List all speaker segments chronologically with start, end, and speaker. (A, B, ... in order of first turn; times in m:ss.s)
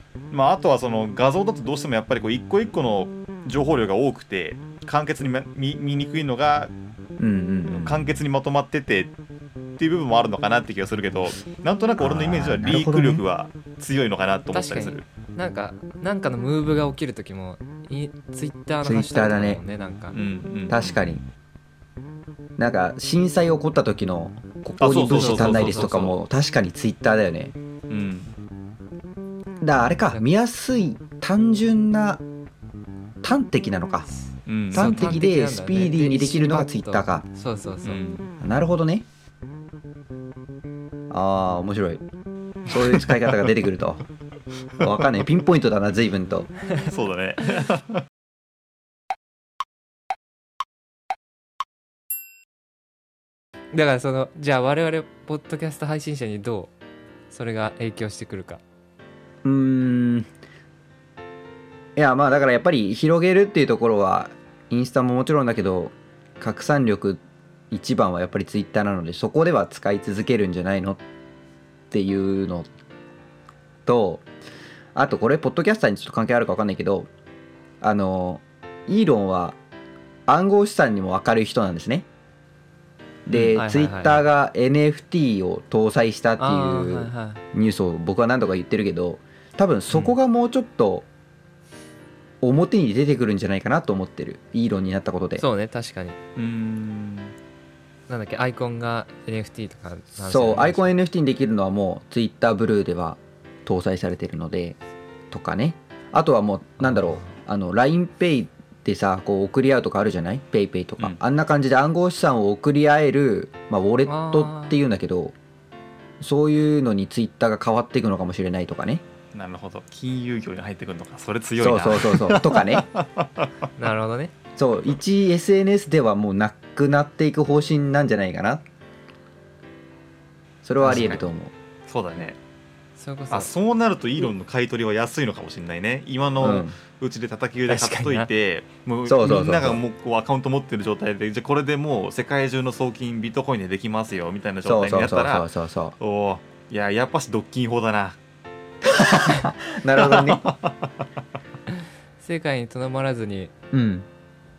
0:00.3-0:06.7 A
0:07.2-0:08.1 B
0:07.8-0:09.1 A
0:09.8-0:15.0 A
0:12.0-0:13.2 B
0:14.5-0:20.2 C
0:18.8-0:19.6 B
0:20.1-0:21.0 A
0:20.7-0:21.2 B
0:22.6-0:27.5 B
0:24.8-0:26.2 A
0:25.0-0:26.1 C
0:27.9-0:28.3 A
0:29.6-0:32.2 B
0:33.2-0:34.1 B
0:34.5-0:35.1 A
0:34.7-0:37.2 B
0:34.7-0:38.0 C
0:37.8-0:38.3 A
0:38.4-0:39.1 B
0:41.1-0:42.0 B
0:42.7-0:44.0 B
0:42.8-0:43.2 A
0:44.8-0:46.5 B
0:46.9-0:48.0 A
0:53.7-0:56.7 C
0:57.3-0:58.6 C
0:59.4-1:00.3 B
1:02.0-1:11.0 B
1:11.9-1:12.7 B
1:13.9-1:14.3 B
1:15.0-1:17.1 B
1:17.8-1:19.6 B
1:20.3-1:22.1 B
1:23.3-1:31.1 B
1:23.5-1:24.2 C
1:26.4-1:27.4 C
1:32.4-1:35.4 B
1:35.4-1:36.2 C
1:36.4-1:37.3 A
1:38.1-1:40.9 C
1:40.2-1:44.8 B
1:45.3-1:55.4 B
1:46.8-1:47.4 C
1:54.1-1:54.8 C
1:56.2-1:59.0 B
1:59.3-2:03.5 A
2:01.6-2:02.9 B
2:03.8-2:04.3 C
2:04.6-2:08.6 B
2:10.6-2:11.5 B
2:10.8-2:11.3 C
2:11.9-2:12.4 A
2:13.0-2:13.5 C
2:13.3-2:25.5 A
2:16.4-2:16.7 B
2:17.7-2:18.3 C
2:19.1-2:19.8 B
2:24.6-2:26.0 B
2:26.0-2:28.2 A
2:28.8-2:30.4 B
2:30.0-2:30.9 A
2:32.2-2:33.5 C
2:33.7-2:34.1 B